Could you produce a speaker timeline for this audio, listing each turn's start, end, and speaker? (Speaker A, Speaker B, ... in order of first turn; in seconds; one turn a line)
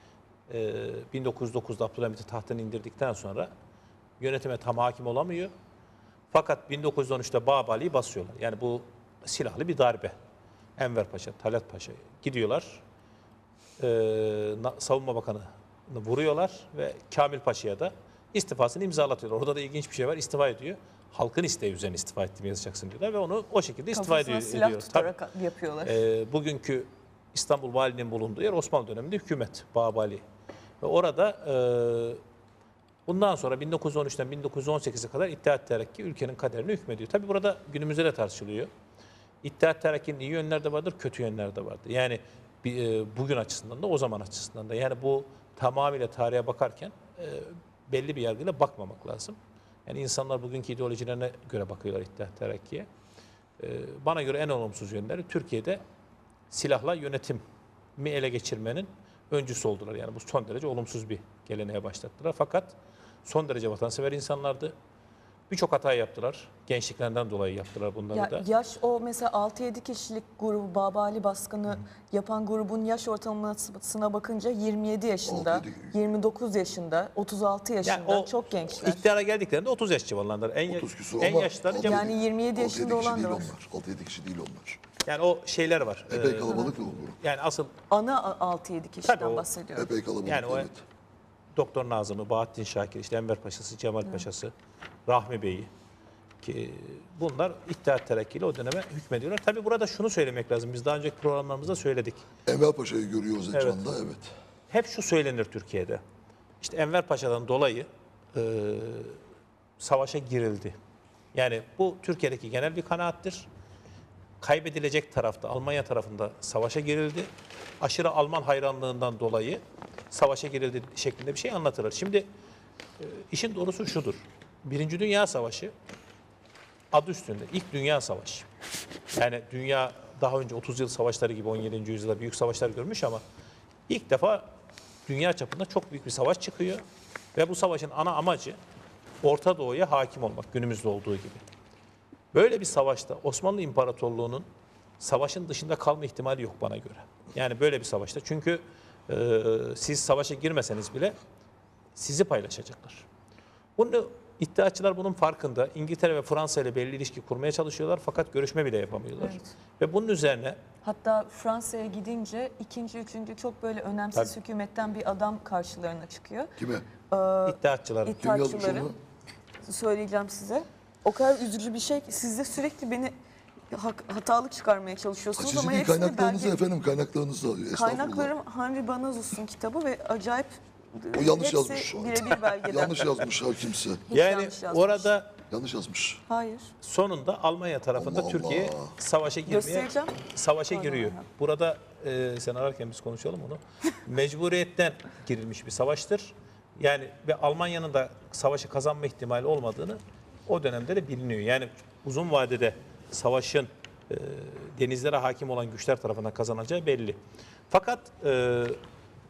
Speaker A: 0.5-3.5
Speaker A: 4.2-5.5
Speaker A: 6.3-10.1
Speaker A: 10.8-12.8
Speaker A: 13.8-25.1
Speaker B: 23.9-26.0
Speaker A: 25.8-30.2
Speaker A: 30.8-32.2
Speaker A: 33.0-38.7
Speaker A: 39.4-52.9
Speaker A: 53.6-55.8
Speaker A: 56.5-57.4
Speaker A: 58.0-64.7
Speaker A: 65.5-68.4
Speaker B: 68.1-79.0
Speaker C: 75.2-76.0
Speaker A: 77.8-78.3
Speaker A: 78.8-82.1
Speaker C: 80.7-84.8
Speaker B: 81.8-83.5
Speaker A: 85.0-87.7
Speaker C: 86.1-87.2
Speaker B: 87.9-89.9
Speaker A: 89.0-89.4
Speaker C: 89.7-90.8
Speaker A: 90.2-90.7
Speaker A: 91.5-94.5
Speaker A: 95.0-95.7
Speaker A: 96.4-102.2
Speaker C: 102.5-104.3
Speaker A: 104.7-106.0
Speaker A: 106.6-109.2
Speaker A: 109.8-110.8
Speaker A: 111.3-113.5
Speaker A: 114.4-117.3
Speaker A: 117.8-122.3
Speaker A: 123.0-125.7
Speaker A: 126.9-128.4
Speaker A: 129.1-133.2
Speaker A: 133.9-134.5
Speaker A: 135.1-136.8
Speaker A: 137.3-138.6
Speaker A: 139.2-141.4
Speaker A: 142.3-144.5
Speaker A: 145.0-151.1
Speaker A: 151.9-153.0
Speaker A: 153.8-160.6
Speaker B: 159.2-159.4
Speaker B: 160.8-166.5
Speaker C: 166.6-166.8
Speaker B: 167.1-168.9
Speaker A: 167.4-168.2
Speaker C: 168.2-168.9
Speaker B: 169.6-173.1
Speaker B: 173.7-176.6
Speaker C: 175.4-178.3
Speaker B: 177.7-183.2
Speaker C: 181.1-184.0
Speaker B: 184.1-185.1
Speaker A: 184.1-185.3
Speaker C: 185.5-186.2
Speaker B: 186.3-186.7
Speaker A: 186.8-207.2
Speaker C: 187.9-188.9
Speaker B: 189.5-190.2
Speaker B: 190.7-191.2
Speaker A: 207.7-208.8